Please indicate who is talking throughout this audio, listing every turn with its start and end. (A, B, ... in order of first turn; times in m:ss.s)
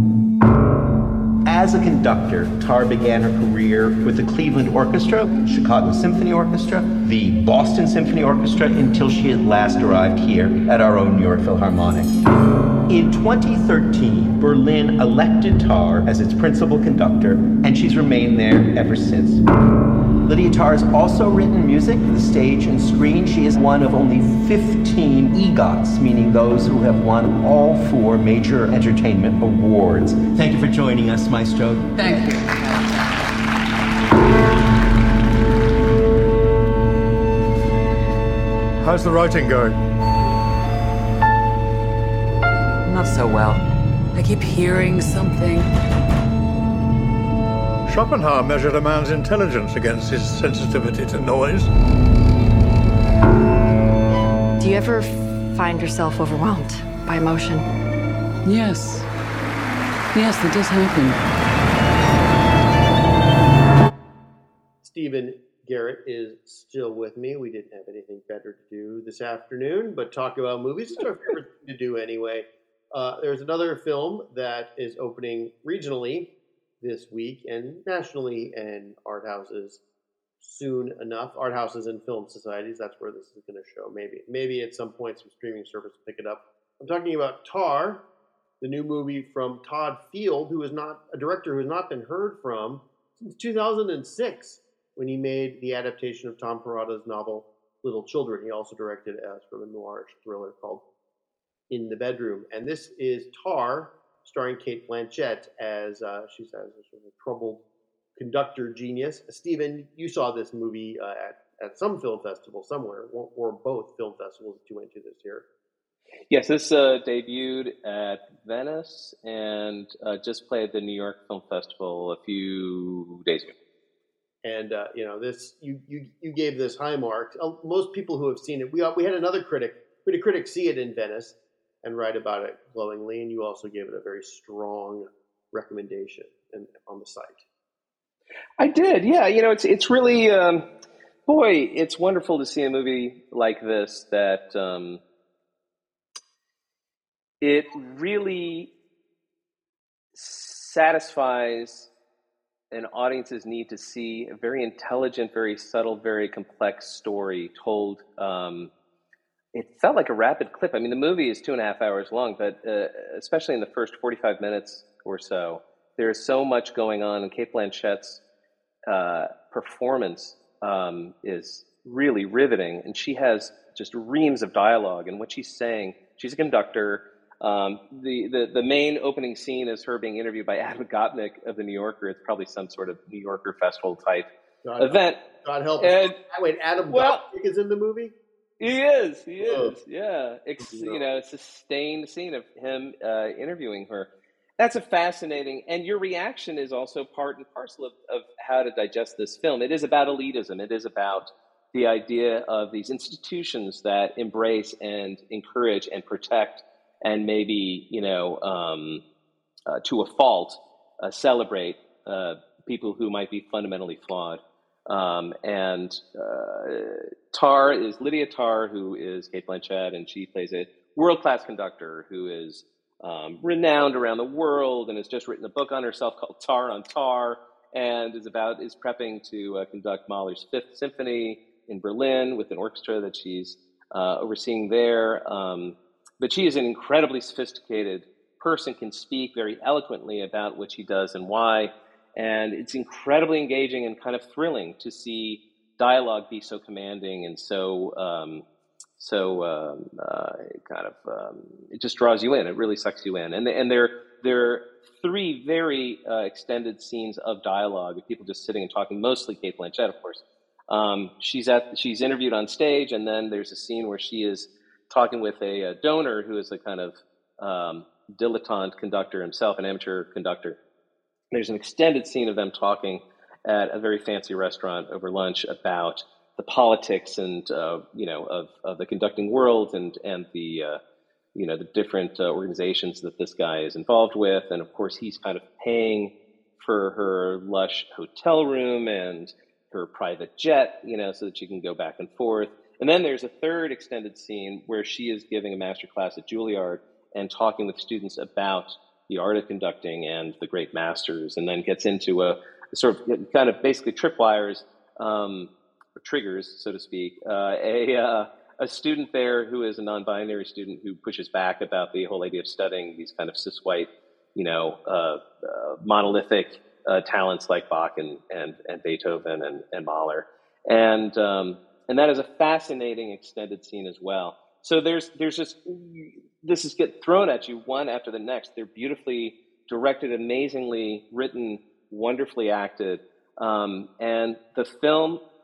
0:01.4-0:12.1 A
0:12.9-0:19.4 A
0:20.2-0:32.2 A
0:32.0-0:33.2 B
0:38.8-0:39.8 C
0:42.8-0:43.6 B
0:44.1-0:45.7 B
0:47.9-0:51.7 C
0:54.6-0:57.7 D
0:58.4-0:59.1 B
1:00.1-1:01.2 B
1:04.8-1:19.8 E
1:20.4-1:28.0 E
1:28.6-1:40.8 E
1:41.7-1:47.6 E
1:48.2-1:55.4 E
1:56.3-2:03.5 F
2:04.4-2:17.4 E
2:18.6-2:20.6 F
2:21.3-2:25.0 F
2:27.4-2:28.7 F
2:30.1-2:31.9 F
2:32.7-2:38.7 F
2:39.5-2:48.2 F
2:48.9-3:04.3 F
3:04.6-3:08.1 E
3:04.8-3:05.2 F
3:05.8-3:06.2 F
3:06.9-3:07.2 F
3:08.6-3:29.0 F
3:09.4-3:09.7 E
3:10.6-3:11.0 E
3:29.7-4:08.4 F
4:09.0-4:30.6 F
4:31.3-4:40.8 F
4:41.3-5:35.2 F